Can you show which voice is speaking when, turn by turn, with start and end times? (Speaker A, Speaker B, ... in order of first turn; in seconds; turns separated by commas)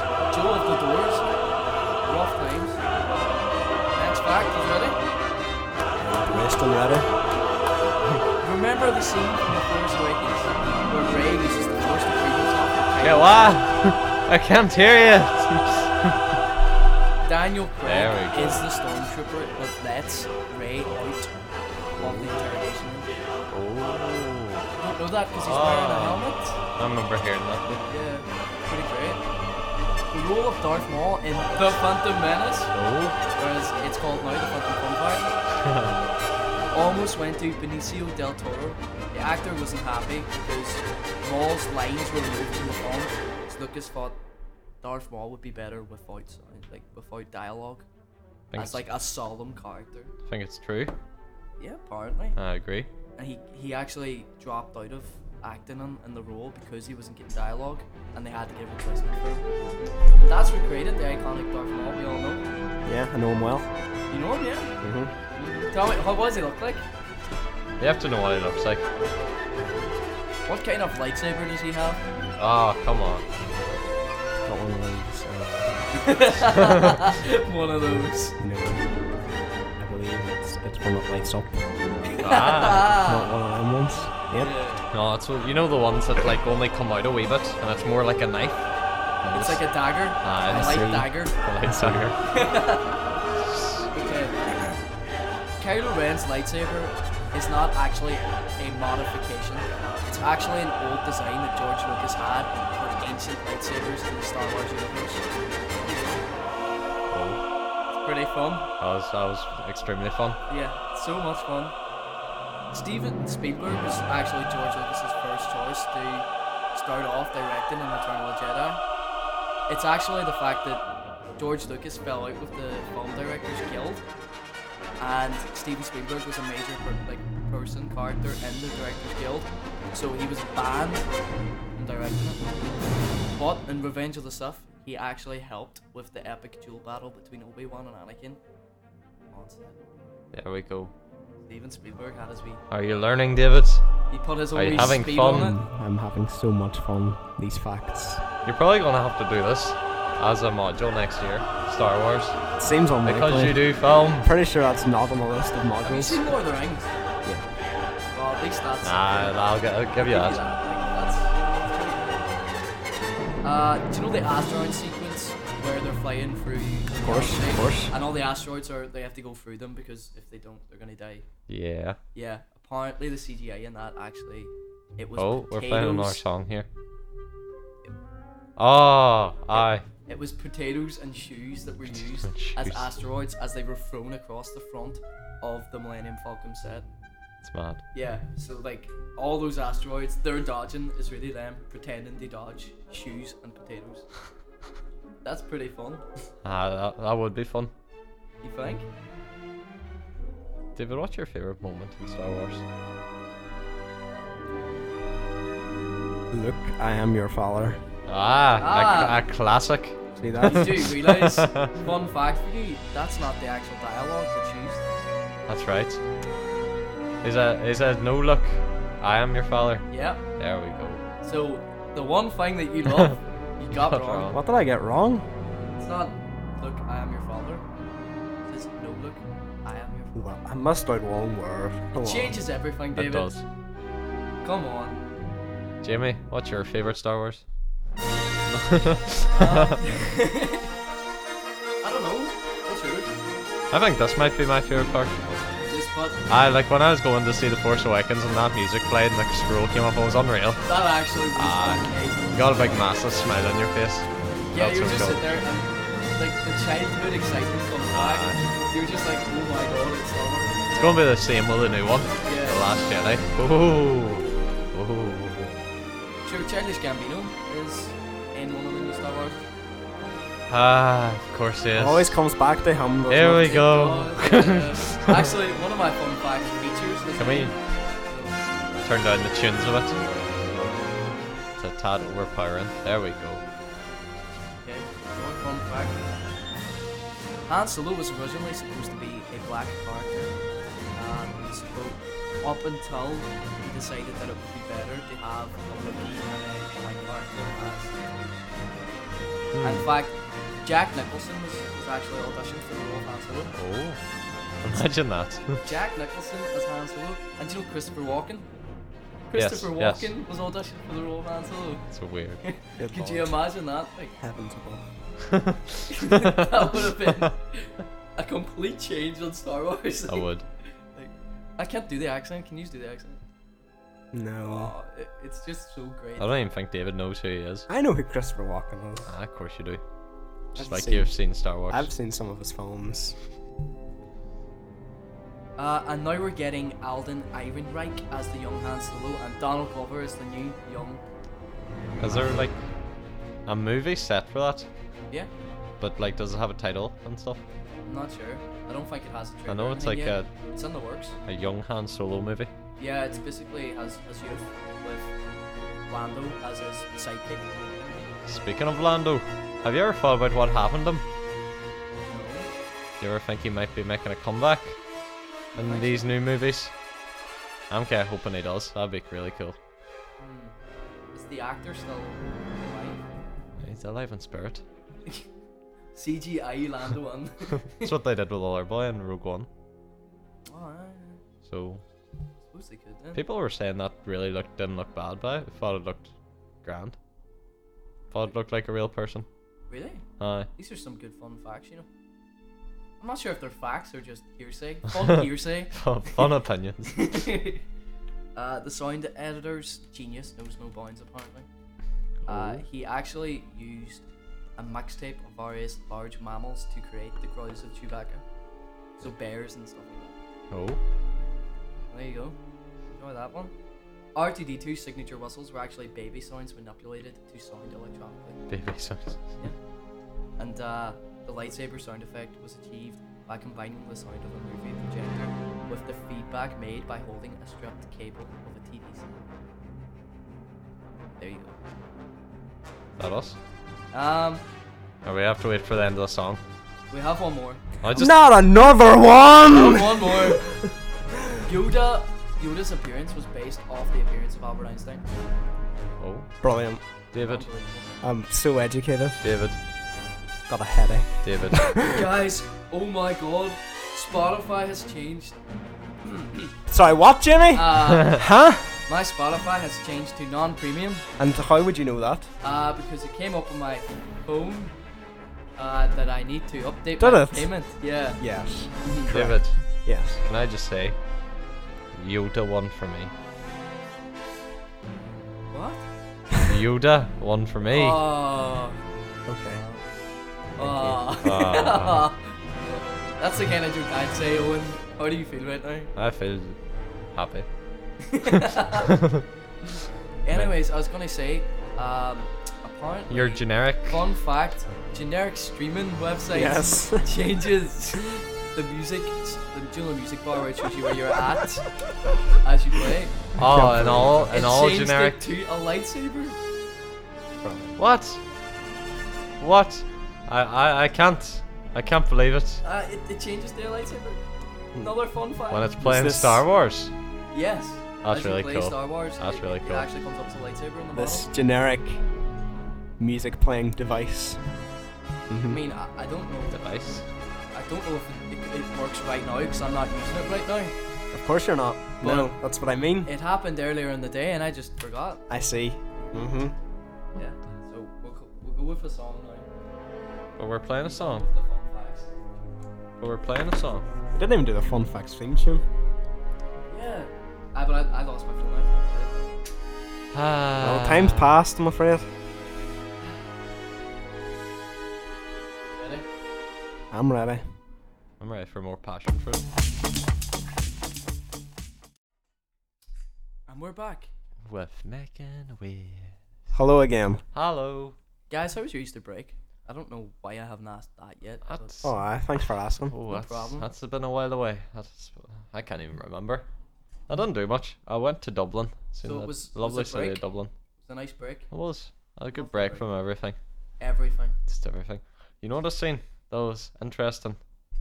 Speaker A: 0.3-1.5, Speaker A: 2.0-2.9, Speaker A: 3.9-5.0, Speaker B: 6.0-7.1, Speaker A: 8.4-13.6, Speaker C: 13.0-16.2, Speaker A: 17.2-21.4, Speaker C: 17.9-18.7, Speaker A: 22.0-23.2, Speaker C: 22.0-22.3, Speaker C: 23.5-24.7, Speaker A: 24.8-26.6, Speaker C: 25.4-27.8, Speaker A: 27.9-29.2, Speaker A: 30.1-32.7, Speaker C: 32.7-33.2, Speaker A: 33.4-35.3, Speaker C: 35.6-36.0, Speaker A: 36.7-44.2, Speaker A: 44.8-47.9, Speaker C: 48.5-48.8, Speaker A: 48.5-50.1, Speaker C: 50.3-50.9, Speaker A: 51.6-52.4, Speaker C: 52.4-52.9, Speaker A: 53.2-59.4, Speaker A: 60.2-62.5, Speaker B: 62.9-63.7, Speaker A: 64.1-64.7, Speaker B: 64.8-65.1, Speaker A: 65.4-66.8, Speaker C: 67.8-68.9, Speaker A: 70.5-72.0, Speaker C: 72.4-73.2, Speaker B: 74.5-75.9, Speaker A: 76.0-78.3, Speaker B: 78.4-78.8, Speaker B: 79.8-81.7, Speaker A: 82.0-83.3, Speaker C: 82.2-82.9, Speaker B: 82.9-84.5, Speaker A: 84.4-84.9, Speaker C: 84.9-88.7, Speaker C: 89.2-89.7, Speaker A: 89.3-91.3, Speaker C: 90.2-92.2, Speaker B: 90.5-91.1, Speaker B: 91.6-92.0, Speaker A: 92.3-93.0, Speaker C: 93.4-93.9, Speaker A: 93.9-94.4, Speaker A: 95.6-105.2, Speaker C: 107.1-107.4, Speaker A: 107.9-108.7, Speaker C: 108.8-110.4, Speaker A: 110.5-111.8, Speaker A: 112.7-118.8, Speaker A: 119.7-120.8, Speaker A: 121.4-124.0, Speaker A: 125.0-131.1, Speaker A: 131.8-132.5, Speaker A: 133.3-138.4, Speaker A: 139.3-139.8, Speaker C: 140.3-140.9, Speaker A: 141.5-142.6, Speaker C: 142.7-143.8, Speaker A: 144.1-145.6, Speaker C: 144.5-145.5, Speaker B: 144.7-148.2, Speaker C: 148.4-152.4, Speaker B: 152.6-156.2, Speaker C: 153.0-154.3, Speaker A: 155.8-156.9, Speaker A: 158.1-159.4, Speaker C: 158.8-160.4, Speaker A: 160.0-162.3, Speaker A: 163.4-171.2, Speaker B: 167.0-167.9, Speaker C: 171.5-172.0, Speaker A: 172.1-176.2, Speaker C: 175.2-176.7, Speaker C: 178.6-179.8, Speaker A: 180.0-186.8, Speaker C: 182.2-182.9, Speaker C: 187.4-187.8, Speaker A: 187.9-194.1, Speaker A: 195.2-196.0, Speaker C: 196.4-197.7, Speaker A: 198.4-198.9, Speaker C: 200.8-202.6, Speaker B: 206.3-207.8, Speaker C: 208.1-210.0, Speaker A: 208.6-209.2, Speaker B: 210.2-210.9, Speaker A: 210.4-214.8, Speaker C: 210.5-211.7, Speaker C: 215.5-216.0, Speaker C: 217.2-221.0, Speaker A: 219.9-220.2, Speaker A: 221.2-224.3, Speaker C: 223.7-224.4, Speaker B: 224.3-225.2, Speaker A: 225.7-227.7, Speaker A: 228.4-230.3, Speaker B: 230.2-232.4, Speaker A: 231.9-233.4, Speaker C: 232.9-233.4, Speaker A: 234.4-235.0, Speaker C: 235.8-237.4, Speaker C: 238.5-239.8, Speaker A: 239.3-240.7, Speaker A: 241.8-243.3, Speaker C: 243.7-245.4, Speaker A: 245.7-246.2, Speaker C: 246.3-250.6, Speaker A: 250.7-252.9, Speaker C: 251.3-255.3, Speaker A: 254.5-261.0, Speaker C: 257.9-258.4, Speaker C: 260.8-265.6, Speaker A: 262.2-262.6, Speaker A: 266.2-269.4, Speaker C: 270.5-272.2, Speaker B: 271.8-273.6, Speaker C: 273.1-275.2, Speaker A: 273.4-278.4, Speaker C: 277.2-277.6, Speaker C: 278.8-280.0, Speaker C: 281.6-283.4, Speaker A: 284.6-286.1, Speaker A: 287.5-290.3, Speaker A: 290.9-298.0, Speaker C: 299.5-299.9, Speaker A: 299.6-303.6, Speaker C: 303.6-304.0, Speaker C: 304.6-305.6, Speaker A: 305.6-308.5, Speaker A: 309.3-311.9, Speaker C: 309.3-310.1, Speaker C: 311.9-312.4, Speaker A: 312.4-314.1, Speaker B: 312.8-313.3, Speaker B: 314.2-314.8, Speaker C: 315.3-316.6, Speaker A: 315.9-320.3, Speaker C: 320.1-320.5, Speaker A: 320.9-323.2, Speaker B: 324.1-324.7, Speaker A: 324.5-326.3, Speaker C: 326.2-327.7, Speaker B: 327.7-329.1, Speaker C: 329.1-329.8, Speaker C: 330.5-331.9, Speaker B: 330.6-331.1, Speaker B: 331.7-333.2, Speaker A: 335.6-341.0, Speaker C: 342.0-342.6, Speaker B: 342.1-342.4, Speaker C: 343.5-344.7, Speaker C: 345.8-347.4, Speaker A: 347.8-351.2, Speaker C: 349.5-350.3, Speaker C: 351.2-352.5, Speaker A: 352.8-355.1, Speaker A: 355.9-358.0, Speaker C: 358.2-361.0, Speaker A: 362.1-362.5, Speaker C: 363.0-364.8, Speaker A: 365.5-366.1, Speaker C: 365.6-366.7, Speaker C: 367.7-369.6, Speaker A: 370.2-370.6, Speaker A: 371.1-373.0, Speaker C: 373.6-374.6, Speaker A: 375.9-377.9, Speaker C: 377.8-379.5, Speaker A: 380.5-381.2, Speaker C: 381.4-381.8, Speaker A: 382.5-383.2, Speaker C: 383.1-386.1, Speaker C: 386.6-387.0, Speaker C: 388.1-389.2, Speaker A: 389.7-391.9, Speaker C: 390.2-390.5, Speaker A: 393.0-396.2, Speaker C: 395.7-397.2, Speaker A: 396.9-397.6, Speaker A: 398.4-401.5, Speaker C: 402.2-402.6, Speaker A: 402.3-404.0, Speaker A: 404.6-408.2, Speaker A: 409.0-410.2, Speaker C: 410.5-410.8, Speaker A: 411.9-412.4, Speaker A: 412.9-413.5, Speaker A: 414.1-418.4, Speaker C: 418.5-419.2, Speaker A: 420.4-429.1, Speaker A: 431.2-431.6, Speaker C: 433.0-433.4, Speaker A: 433.9-434.4, Speaker C: 435.0-436.4, Speaker A: 436.9-437.6, Speaker C: 437.8-438.1, Speaker B: 437.9-440.7, Speaker A: 439.5-440.4, Speaker A: 441.4-445.1, Speaker C: 446.0-446.3, Speaker B: 446.4-446.8, Speaker C: 447.1-447.5, Speaker A: 447.2-448.0, Speaker B: 448.0-449.2, Speaker C: 449.2-449.6, Speaker B: 450.5-452.1, Speaker C: 451.2-451.7, Speaker A: 451.8-455.4, Speaker A: 456.0-456.5, Speaker B: 456.7-458.7, Speaker A: 457.5-458.2, Speaker C: 457.9-458.2, Speaker A: 458.9-461.0, Speaker B: 461.2-462.3, Speaker A: 462.4-464.7, Speaker A: 465.6-468.2, Speaker B: 467.0-467.5, Speaker B: 468.2-470.2, Speaker A: 468.8-469.1, Speaker C: 469.1-469.6, Speaker C: 470.2-471.0, Speaker C: 471.9-473.1, Speaker A: 475.5-475.8, Speaker C: 476.4-478.0, Speaker A: 477.7-478.8, Speaker B: 479.2-479.6, Speaker A: 479.5-479.8, Speaker B: 480.6-481.1, Speaker A: 480.6-485.9, Speaker C: 481.2-482.1, Speaker C: 485.9-486.6, Speaker C: 487.1-487.5, Speaker A: 488.1-488.9, Speaker C: 488.8-489.2, Speaker A: 490.2-501.7, Speaker C: 493.1-494.0, Speaker B: 496.3-497.1, Speaker A: 502.4-503.2, Speaker C: 503.4-505.2, Speaker B: 503.4-504.3, Speaker A: 504.3-506.4, Speaker C: 507.8-508.2, Speaker C: 509.4-512.6, Speaker A: 512.6-514.2, Speaker A: 514.8-515.7, Speaker C: 515.5-516.9, Speaker B: 515.8-516.4, Speaker A: 517.3-521.3, Speaker C: 518.0-519.9, Speaker B: 520.9-522.0, Speaker B: 523.0-524.4, Speaker B: 525.3-525.6, Speaker A: 525.5-530.8, Speaker C: 526.5-527.0, Speaker B: 531.1-533.1, Speaker A: 532.0-532.3, Speaker A: 533.0-535.2, Speaker B: 535.3-536.5, Speaker A: 537.1-539.5, Speaker C: 540.4-541.2, Speaker A: 540.8-542.1, Speaker C: 543.0-543.9, Speaker B: 544.1-545.6, Speaker A: 546.7-549.1, Speaker C: 550.1-551.3, Speaker B: 550.6-552.1, Speaker A: 555.7-556.1, Speaker B: 556.9-557.4, Speaker C: 558.2-559.5, Speaker A: 563.5-564.1, Speaker C: 564.5-566.1, Speaker B: 566.5-567.2, Speaker C: 567.3-568.0, Speaker A: 568.3-571.8, Speaker C: 571.5-571.9, Speaker B: 571.8-573.0, Speaker C: 572.9-576.5, Speaker A: 573.1-573.7, Speaker C: 577.1-580.5, Speaker A: 579.0-580.2, Speaker A: 580.8-581.5, Speaker C: 581.5-583.4, Speaker A: 582.3-582.9, Speaker A: 583.8-584.3, Speaker C: 584.5-587.4